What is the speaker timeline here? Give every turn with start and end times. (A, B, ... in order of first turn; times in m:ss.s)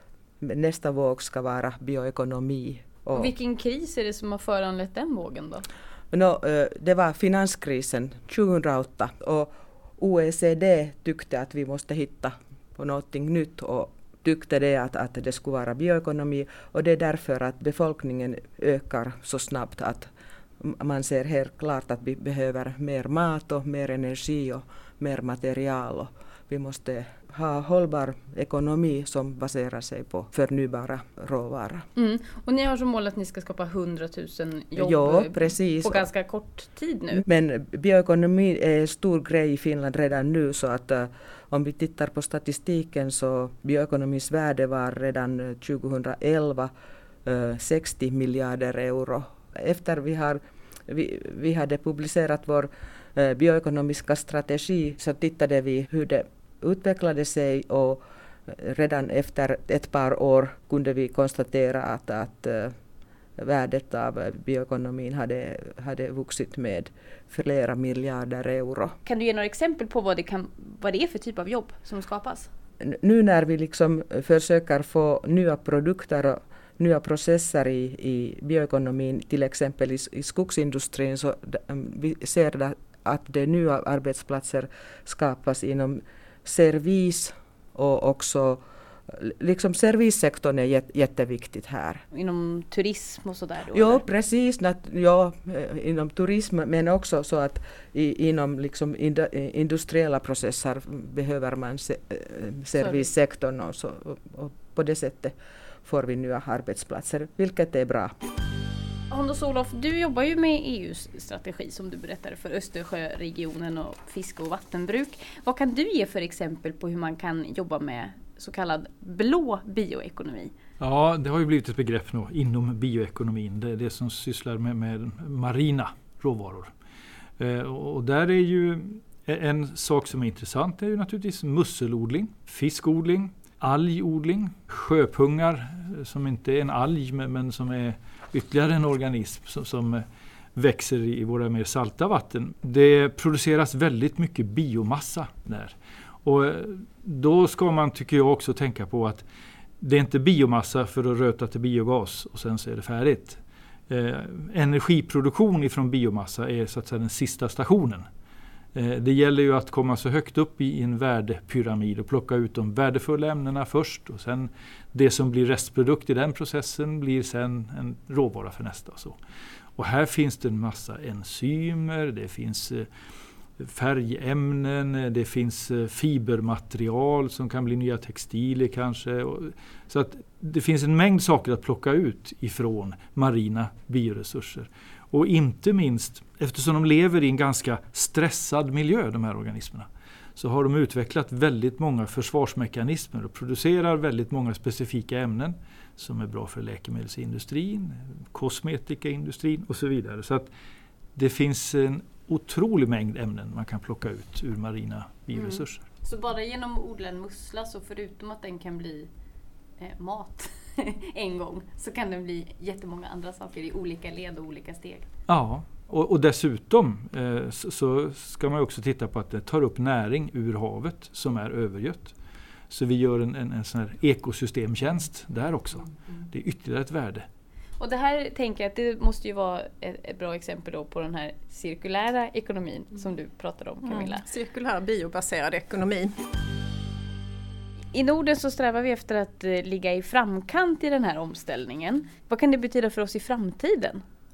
0:00.4-0:03.3 A
0:03.1-0:05.6 B
0:06.1-0:31.9 A
0:32.0-0:37.2 B
0:34.8-0:36.1 A
0:37.2-0:46.7 A
0:47.2-1:02.8 A
1:03.4-1:09.0 A
1:09.0-1:12.5 B
1:12.8-1:32.0 A
1:32.1-1:34.0 B
1:33.7-1:48.1 A
1:42.8-1:43.0 B
1:49.1-2:00.5 B
2:00.8-2:06.7 C
2:07.4-2:20.0 C
2:20.6-2:29.2 C
2:29.8-2:38.1 C
2:38.7-2:49.2 C
2:49.8-2:52.9 C
2:53.6-3:20.5 C
3:21.2-3:25.8 C
3:25.3-3:29.1 B
3:29.8-3:35.1 B
3:35.3-3:42.2 C
3:42.7-3:47.3 C
3:47.8-3:54.2 B
3:53.8-3:56.1 D
3:57.9-4:04.0 B